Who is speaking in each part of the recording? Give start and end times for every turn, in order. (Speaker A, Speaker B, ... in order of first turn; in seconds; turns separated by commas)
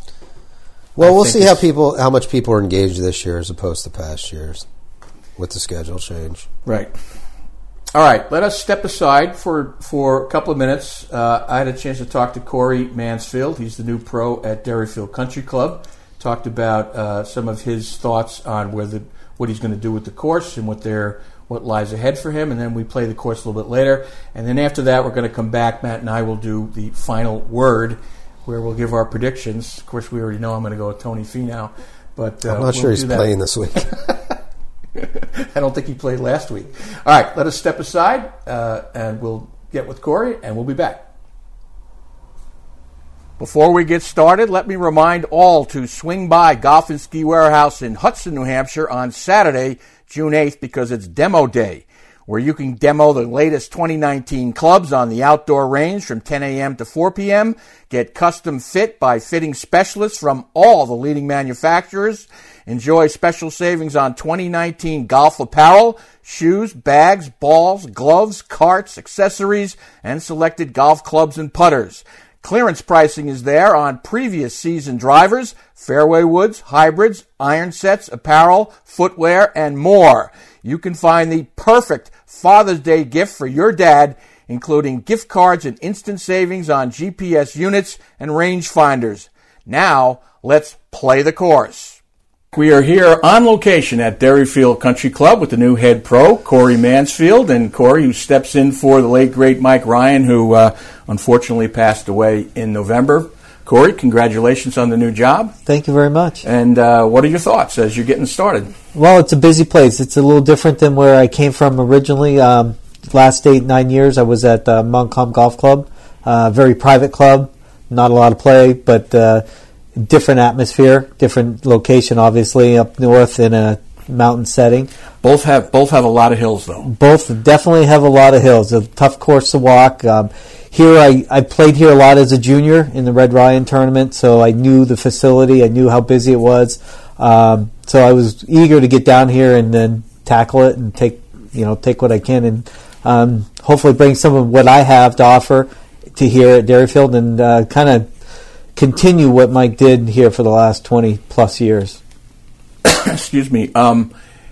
Speaker A: 0.9-4.7, Speaker B: 1.0-1.6, Speaker A: 5.4-6.5, Speaker B: 6.7-6.9, Speaker B: 7.9-33.3, Speaker A: 32.5-34.1, Speaker B: 35.0-41.0, Speaker B: 43.4-92.0, Speaker B: 92.5-105.5, Speaker C: 105.7-106.4, Speaker B: 106.4-108.7, Speaker C: 108.9-119.4, Speaker C: 120.0-124.9, Speaker B: 125.2-126.9, Speaker C: 126.8-148.1, Speaker C: 148.8-152.0, Speaker B: 152.8-154.1